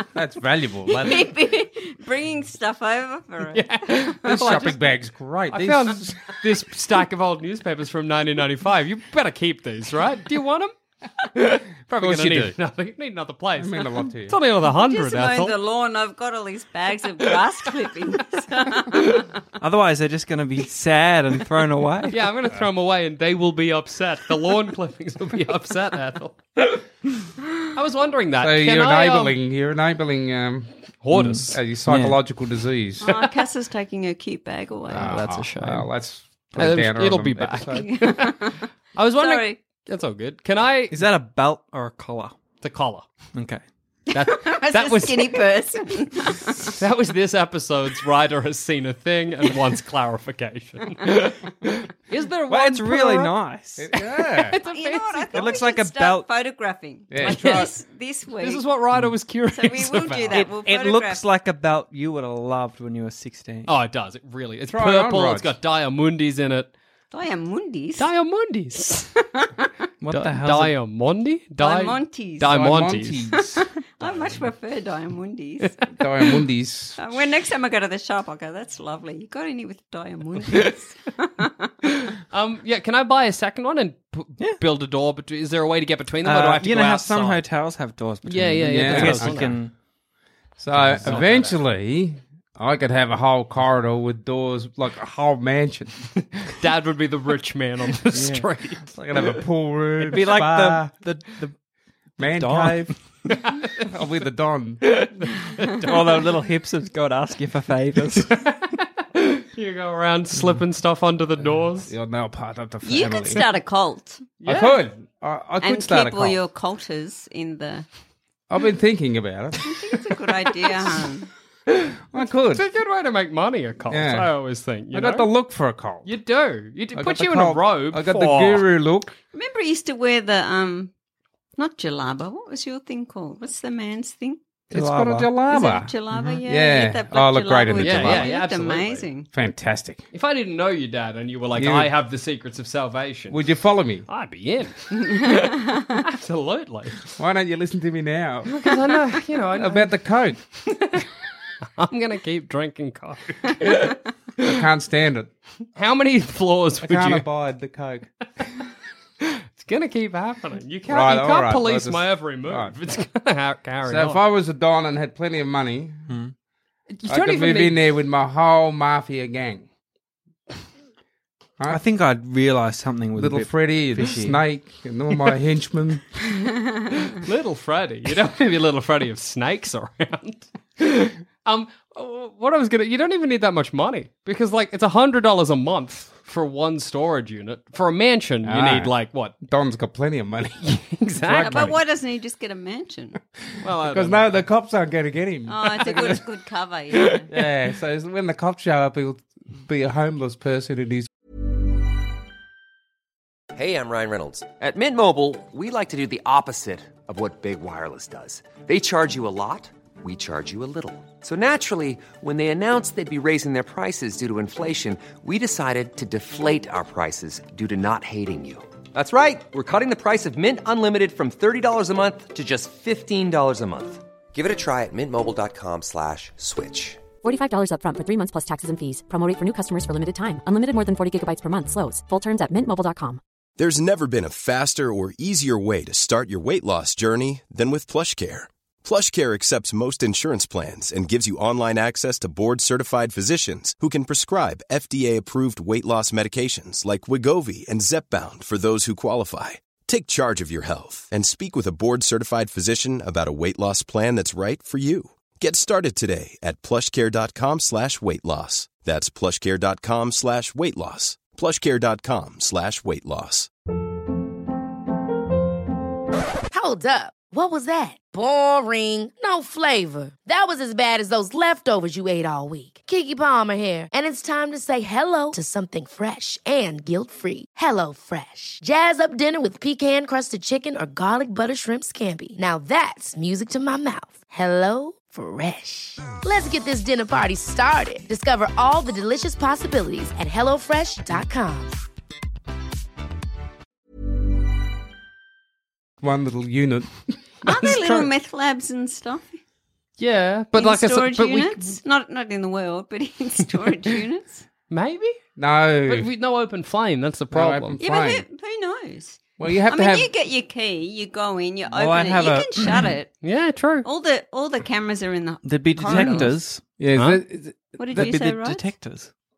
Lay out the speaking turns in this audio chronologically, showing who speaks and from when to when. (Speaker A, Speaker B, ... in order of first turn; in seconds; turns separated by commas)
Speaker A: 0.1-1.3, Speaker B: 0.9-3.6, Speaker C: 3.5-4.9, Speaker A: 4.2-6.4, Speaker C: 5.5-10.7, Speaker C: 11.2-15.6, Speaker A: 12.0-12.6, Speaker A: 13.6-14.4, Speaker B: 14.8-19.2, Speaker D: 19.6-22.2, Speaker C: 22.1-26.8, Speaker C: 27.7-29.4, Speaker A: 28.4-30.7, Speaker C: 31.0-31.6, Speaker D: 31.1-32.2, Speaker A: 31.5-33.1, Speaker B: 33.0-35.2, Speaker A: 34.9-37.9, Speaker C: 34.9-35.9, Speaker C: 36.5-41.1, Speaker B: 37.7-38.7, Speaker B: 39.2-39.6, Speaker D: 40.9-42.4, Speaker C: 42.6-43.1, Speaker D: 43.3-43.6, Speaker B: 44.1-46.8, Speaker C: 44.1-45.5, Speaker C: 46.8-53.4, Speaker D: 52.5-53.9, Speaker A: 53.8-54.6, Speaker C: 54.0-55.3, Speaker B: 54.6-58.6, Speaker D: 55.3-56.3, Speaker A: 57.1-57.7, Speaker C: 57.2-57.7, Speaker C: 58.4-60.5, Speaker B: 59.5-61.2, Speaker D: 60.3-63.7, Speaker C: 63.7-66.7, Speaker A: 64.7-65.5, Speaker B: 67.1-68.1, Speaker C: 68.0-69.2, Speaker D: 70.0-70.7, Speaker C: 70.1-73.3, Speaker B: 71.6-72.7, Speaker A: 72.5-73.6, Speaker B: 73.3-75.8, Speaker A: 76.0-77.0, Speaker B: 77.0-81.5, Speaker C: 81.8-87.5, Speaker D: 86.2-89.7, Speaker C: 88.2-89.5, Speaker A: 88.6-89.5, Speaker A: 90.6-95.9, Speaker D: 90.8-91.4, Speaker C: 90.9-91.5, Speaker C: 96.2-98.9, Speaker D: 98.1-98.5, Speaker A: 98.9-101.0, Speaker D: 100.0-101.5, Speaker A: 102.2-103.0, Speaker D: 102.2-103.0, Speaker C: 103.4-103.9, Speaker A: 103.8-105.0, Speaker C: 105.0-105.8, Speaker D: 105.8-108.6, Speaker C: 108.4-111.9, Speaker A: 111.9-113.5, Speaker B: 112.8-114.2, Speaker A: 114.4-116.4, Speaker C: 114.4-114.9, Speaker B: 115.6-117.9, Speaker A: 118.5-119.7, Speaker B: 119.7-121.3, Speaker C: 121.7-125.3, Speaker A: 122.1-122.7, Speaker A: 123.9-124.3, Speaker A: 124.9-126.1, Speaker C: 126.0-128.7, Speaker A: 126.9-129.1, Speaker B: 129.3-130.9, Speaker B: 131.6-134.4, Speaker D: 134.7-135.3, Speaker A: 134.7-135.9, Speaker B: 135.5-139.3, Speaker A: 136.4-138.4, Speaker C: 137.8-139.1, Speaker A: 139.3-140.0, Speaker C: 140.1-143.5, Speaker A: 141.6-141.9, Speaker A: 143.3-144.1, Speaker C: 144.1-147.1, Speaker B: 145.1-145.9, Speaker A: 147.2-148.7, Speaker C: 148.5-149.9, Speaker A: 149.5-150.4, Speaker C: 150.7-151.1, Speaker C: 151.8-154.5, Speaker A: 154.4-155.3, Speaker C: 155.8-157.3, Speaker A: 156.8-158.1, Speaker C: 159.2-164.2, Speaker A: 160.9-162.7, Speaker A: 163.8-166.0, Speaker C: 166.9-167.8, Speaker A: 167.1-169.7, Speaker D: 171.7-174.4, Speaker A: 173.2-176.0, Speaker C: 177.2-189.4, Speaker A: 188.4-191.8, Speaker C: 190.6-191.8, Speaker B: 191.4-193.2, Speaker C: 193.6-194.4, Speaker A: 193.8-196.2, Speaker B: 195.5-197.3, Speaker A: 197.3-201.1, Speaker E: 203.5-227.1, Speaker F: 227.2-233.2, Speaker G: 233.6-263.5, Speaker H: 266.5-291.7, Speaker A: 296.0-298.1, Speaker B: 297.4-299.2, Speaker C: 300.0-301.8, Speaker B: 300.6-304.4, Speaker C: 304.7-305.2, Speaker A: 305.4-306.1, Speaker C: 305.9-307.8, Speaker A: 307.3-308.2, Speaker B: 307.8-313.2, Speaker A: 309.4-310.1, Speaker D: 311.7-312.9, Speaker C: 313.2-313.9, Speaker B: 313.8-316.4, Speaker D: 315.4-316.6, Speaker A: 315.9-316.2, Speaker A: 316.8-318.1, Speaker C: 316.9-317.2, Speaker B: 317.8-318.7, Speaker D: 317.9-319.1